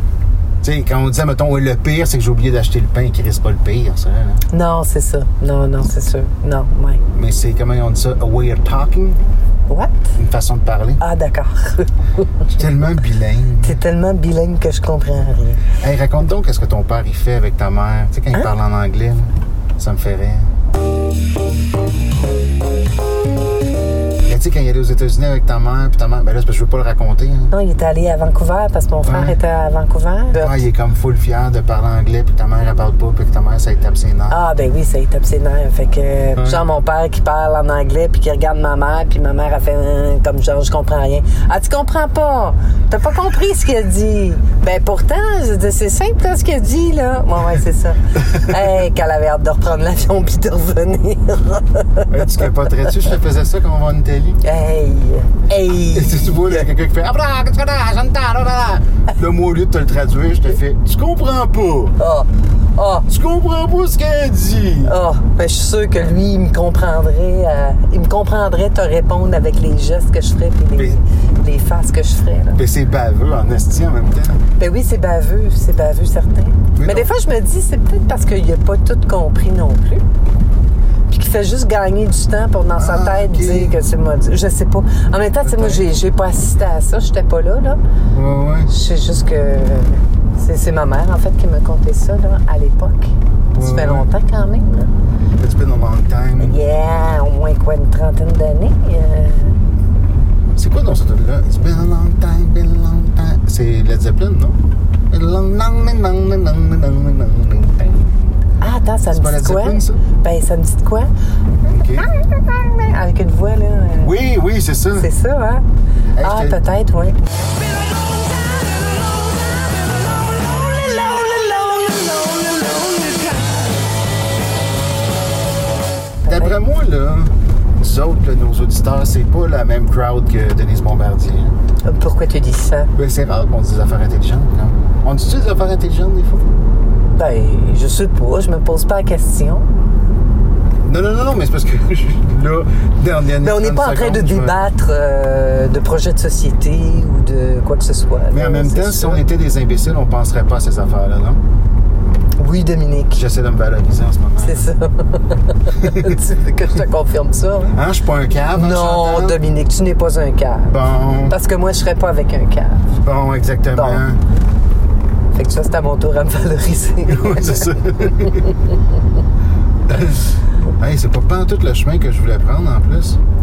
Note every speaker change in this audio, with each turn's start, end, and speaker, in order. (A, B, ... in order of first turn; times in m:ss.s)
0:00.6-0:04.4 A
0:04.5-0:07.0 B
0:07.1-0:09.2 A
0:09.7-0:10.0 B
0:10.2-0:11.0 A
0:11.0-0:11.9 B
0:12.5-0:13.8 A
0:13.6-0:15.6 B
0:15.8-0:20.5 A
0:24.2-0:27.5 A
0:27.5-0:30.6 B
0:29.0-0:29.4 A
0:30.3-0:34.4 A
0:34.3-0:52.5 B
0:36.4-0:36.6 A
0:52.1-0:54.4 A
0:54.4-0:56.7 B
0:55.8-1:02.0 A
1:02.0-1:03.1 B
1:03.1-1:05.0 A
1:04.8-1:12.6 B
1:12.6-1:14.4 A
1:14.6-1:20.0 B
1:16.8-1:17.1 A
1:21.1-1:27.8 B
1:22.8-1:23.8 A
1:25.4-1:25.9 A
1:28.1-1:28.7 A
1:28.7-1:34.9 B
1:33.5-1:34.1 A
1:35.4-1:36.6 A
1:36.4-1:39.6 B
1:40.6-1:44.6 A
1:45.1-1:48.4 A
1:48.6-1:51.1 B
1:49.1-1:50.0 A
1:51.6-1:54.1 B
1:51.7-1:52.1 A
1:54.0-1:55.1 A
1:55.0-1:55.6 B
1:56.2-1:56.6 A
1:56.2-1:57.2 B
2:00.8-2:03.2 B
2:06.3-2:11.6 A
2:06.3-2:06.6 B
2:11.8-2:12.9 B
2:13.0-2:16.5 A
2:17.2-2:19.7 B
2:20.8-2:24.6 A
2:23.4-2:29.2 B
2:28.3-2:31.4 A
2:32.4-2:33.2 B
2:33.1-2:34.7 A
2:34.4-2:37.7 B
2:35.8-2:36.2 A
2:37.7-2:39.4 A
2:38.5-2:40.8 B
2:40.7-2:41.4 A
2:41.3-2:42.9 B
2:43.0-2:44.2 A
2:43.8-2:44.0 B
2:45.3-2:48.4 B
2:47.1-2:48.5 A
2:49.9-2:50.2 A
2:50.8-2:53.2 A